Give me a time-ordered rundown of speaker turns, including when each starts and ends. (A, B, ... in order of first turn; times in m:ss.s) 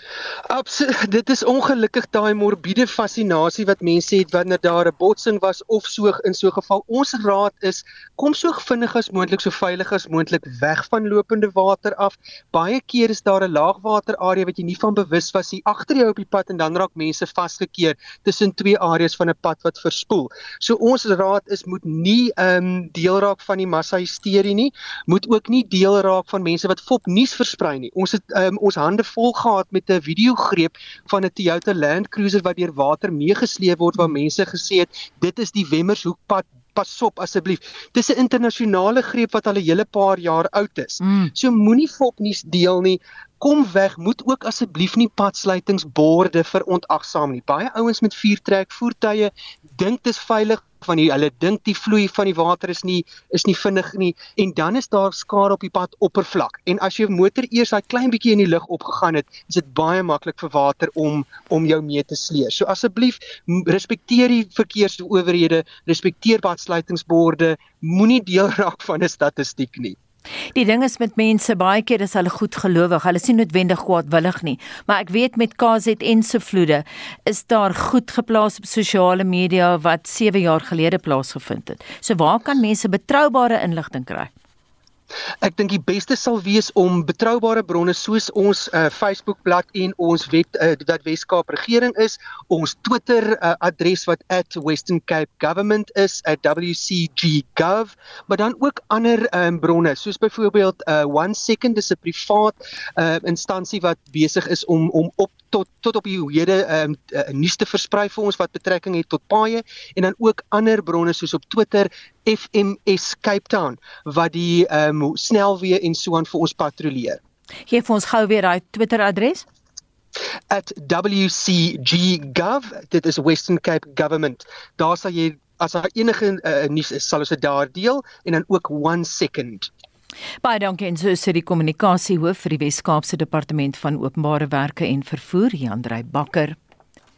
0:00.5-1:10.0 A
0:41.0-0:41.3 B
1:10.5-1:24.3 B
1:25.4-1:57.2 A
1:57.7-1:59.4 B
2:00.5-2:09.7 A
2:10.4-2:16.6 B